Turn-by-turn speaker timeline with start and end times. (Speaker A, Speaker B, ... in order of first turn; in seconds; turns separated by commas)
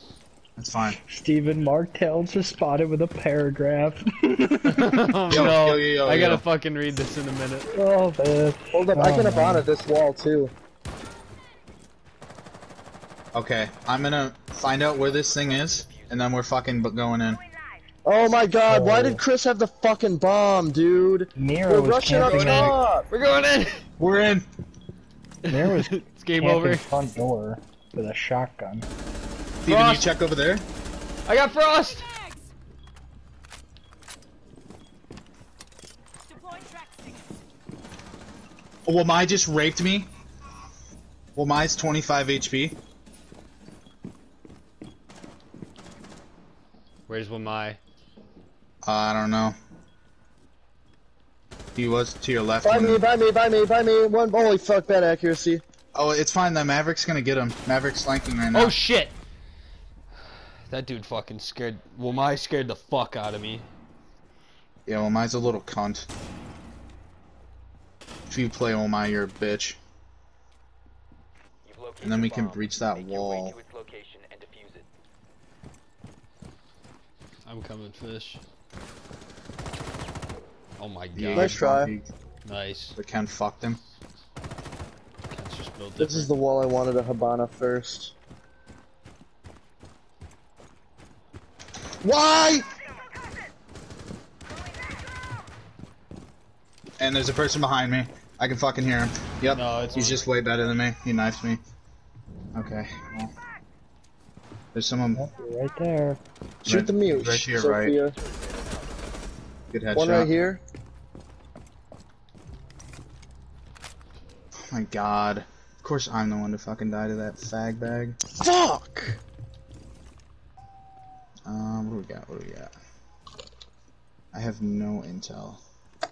Speaker A: 0.6-1.0, Speaker B: 1.0-5.0, Speaker C: 4.7-7.7, Speaker A: 5.3-6.4, Speaker B: 7.7-9.7, Speaker D: 8.7-10.5, Speaker A: 13.3-17.4, Speaker E: 14.9-16.3, Speaker D: 18.0-23.1, Speaker B: 18.7-19.2, Speaker B: 21.4-22.8, Speaker C: 22.2-23.9, Speaker A: 24.0-24.4, Speaker C: 25.4-26.9, Speaker B: 25.5-28.9, Speaker A: 29.6-30.6, Speaker C: 29.6-30.1, Speaker C: 31.3-32.1, Speaker A: 38.9-40.1, Speaker A: 41.4-42.8, Speaker C: 47.1-47.8, Speaker A: 48.8-49.5, Speaker A: 51.7-53.0, Speaker D: 52.6-55.6, Speaker A: 55.9-58.8, Speaker C: 58.5-59.2, Speaker C: 60.2-63.7, Speaker A: 64.8-66.1, Speaker A: 68.3-69.8, Speaker E: 71.6-74.9, Speaker A: 72.0-73.5, Speaker C: 77.4-78.4, Speaker C: 80.8-81.7, Speaker A: 81.1-82.1, Speaker D: 81.3-81.9, Speaker C: 82.4-83.0, Speaker A: 83.0-83.8, Speaker C: 85.3-86.3, Speaker D: 86.0-88.1, Speaker A: 92.0-92.7, Speaker A: 97.0-101.6, Speaker C: 99.5-100.3, Speaker E: 99.8-100.8, Speaker A: 102.5-103.3, Speaker A: 104.7-105.2, Speaker B: 105.1-106.2, Speaker A: 106.6-107.9, Speaker D: 106.7-108.1, Speaker E: 107.8-109.2, Speaker A: 109.7-110.3, Speaker D: 109.9-110.6, Speaker A: 114.6-118.2, Speaker D: 118.3-119.2, Speaker A: 121.4-122.7, Speaker A: 124.3-125.6